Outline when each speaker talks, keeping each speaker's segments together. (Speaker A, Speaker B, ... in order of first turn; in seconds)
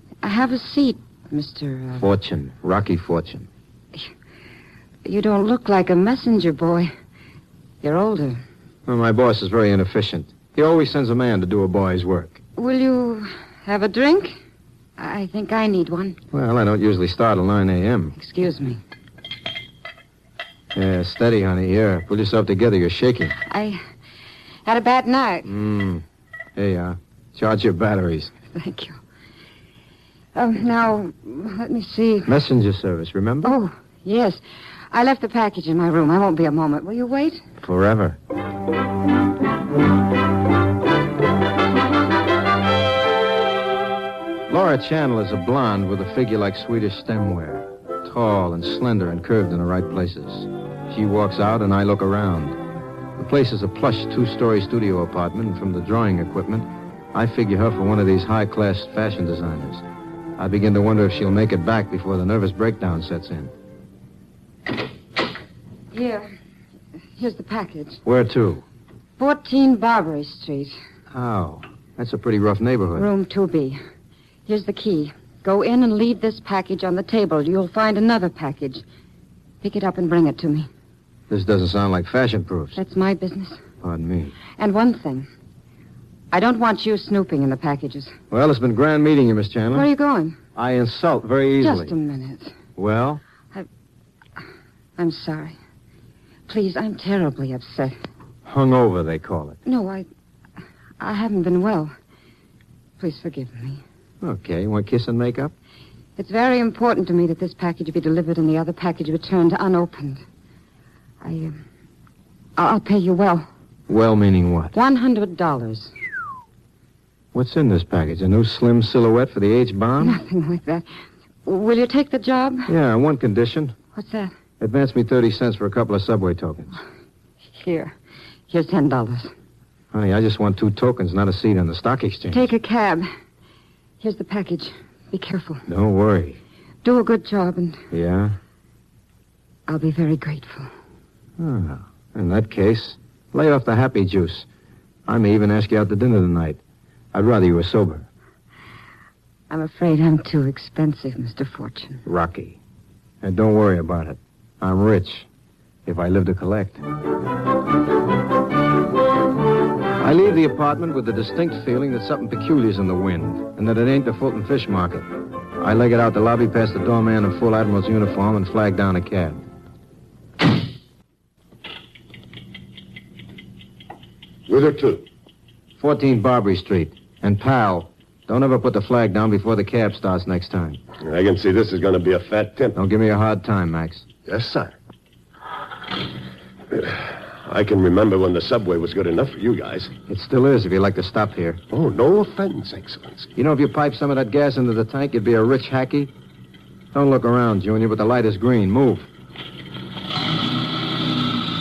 Speaker A: 0.2-2.1, 5.0-6.9, 7.8-8.4, 12.6-14.4, 15.0-16.2, 18.1-18.8, 23.5-23.8, 24.7-25.5, 28.5-29.0, 30.4-32.3, 33.4-34.4, 34.9-37.4, 65.9-66.3, 67.2-68.0, 69.2-70.8, 73.0-73.8, 74.5-78.8, 79.6-80.7, 82.8-83.6, 84.6-85.3, 86.3-88.1, 89.7-90.4, 91.6-92.5, 95.0-95.6, 96.5-98.0, 99.7-100.1, 101.0-101.9, 103.0-103.8, 106.2-110.2, 111.2-111.6, 112.6-113.5, 114.7-115.9, 120.0-120.9, 121.5-122.7, 124.0-124.3, 127.6-127.9, 128.5-129.3, 132.3-133.1, 134.0-135.7, 136.8-137.8, 139.7-140.7, 149.5-152.0
Speaker B: 2.0-3.5, 8.9-12.4, 16.3-18.1, 20.7-23.4, 25.5-26.0, 26.6-28.3, 32.3-33.5, 37.6-38.2, 44.5-52.6, 53.2-59.8, 60.4-63.5, 68.0-68.6, 71.1-73.1, 81.3-82.8, 83.8-84.4, 88.3-89.9, 90.5-92.0, 92.8-93.2, 98.5-99.6, 104.2-105.5, 113.9-114.7, 117.3-120.2, 122.7-123.8, 124.6-126.7, 129.9-132.5, 135.7-136.4, 137.9-138.4, 141.4-144.5, 145.1-146.6, 147.1-148.1, 152.1-152.6, 153.2-155.3, 155.9-156.8, 160.0-169.4, 175.8-180.8, 182.8-184.1, 190.1-191.6, 193.4-196.1, 196.9-199.1
Speaker C: 174.5-175.1, 181.0-182.8, 184.3-184.7, 186.7-189.9, 191.7-193.3